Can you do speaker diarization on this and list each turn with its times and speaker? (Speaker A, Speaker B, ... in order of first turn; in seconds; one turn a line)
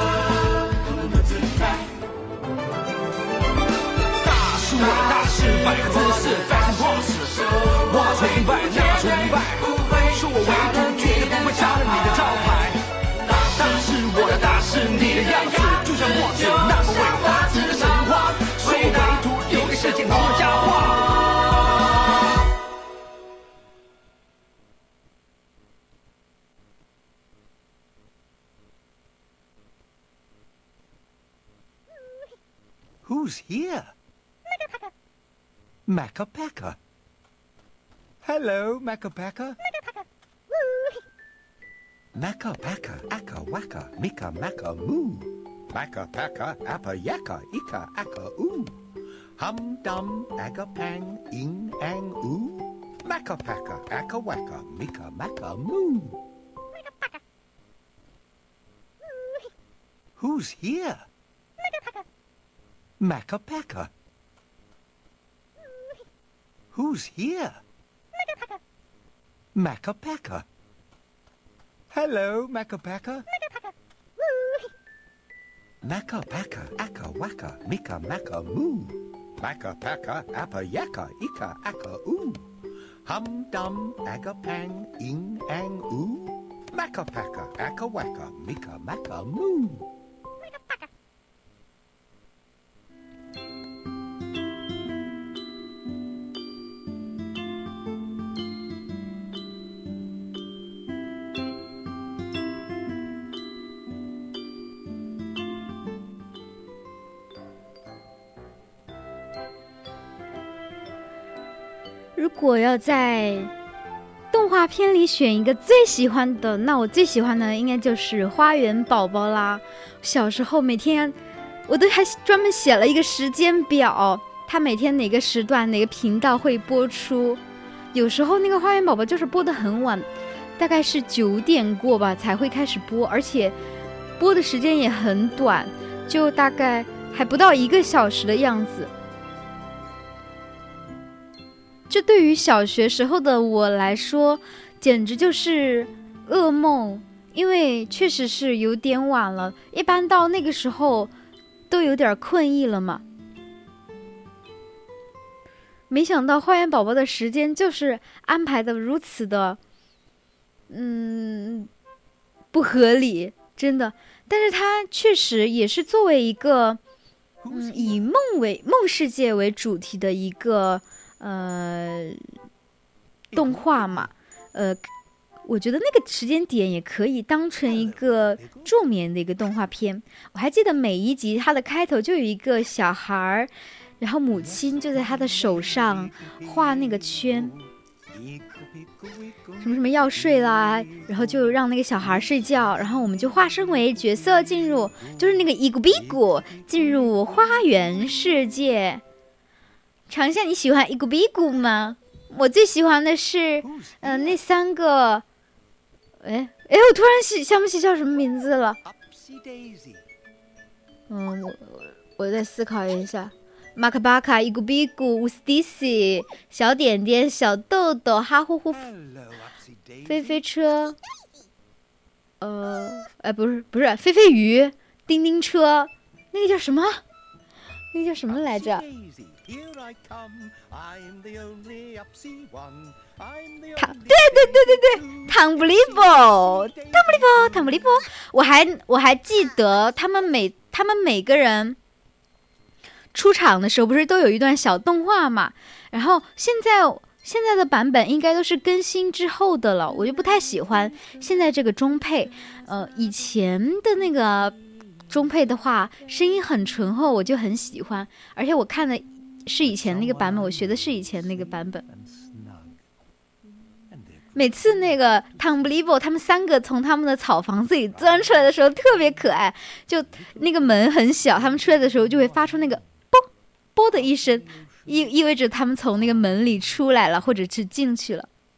Speaker A: 4.2-12.8
Speaker A: 13.5-20.8
Speaker B: 33.0-33.9
Speaker B: 35.9-36.8
Speaker B: 38.2-39.6
Speaker B: 42.1-48.7
Speaker B: 49.4-56.2
Speaker B: 60.2-61.1
Speaker B: 63.0-63.9
Speaker B: 66.7-67.6
Speaker B: 69.5-70.5
Speaker B: 71.9-73.2
Speaker B: 75.8-82.4
Speaker B: 83.0-89.8
Speaker C: 112.2-113.5
Speaker C: 114.3-121.2
Speaker C: 121.7-127.4
Speaker C: 127.9-130.1
Speaker C: 130.6-133.5
Speaker C: 134.2-138.9
Speaker C: 141.9-151.1
Speaker C: 151.7-153.0
Speaker C: 155.9-159.6
Speaker C: 160.7-161.7
Speaker C: 162.5-166.8
Speaker B: 167.4-168.1
Speaker C: 167.5-172.2
Speaker B: 173.3-174.1
Speaker C: 173.3-174.8
Speaker C: 175.4-187.5
Speaker B: 177.7-178.7
Speaker B: 184.7-187.4
Speaker B: 188.1-189.8
Speaker C: 189.6-199.0
Speaker C: 200.1-205.2
Speaker B: 203.6-204.4
Speaker C: 206.2-208.8
Speaker B: 208.8-210.0
Speaker C: 211.1-218.8
Speaker B: 218.7-220.4
Speaker C: 220.0-221.0
Speaker C: 222.4-227.0
Speaker C: 227.9-228.8
Speaker B: 228.3-238.0
Speaker C: 233.8-241.8
Speaker C: 243.1-254.6
Speaker C: 255.1-261.8
Speaker B: 259.6-262.8
Speaker B: 263.9-264.5
Speaker C: 264.3-278.3
Speaker B: 271.6-272.7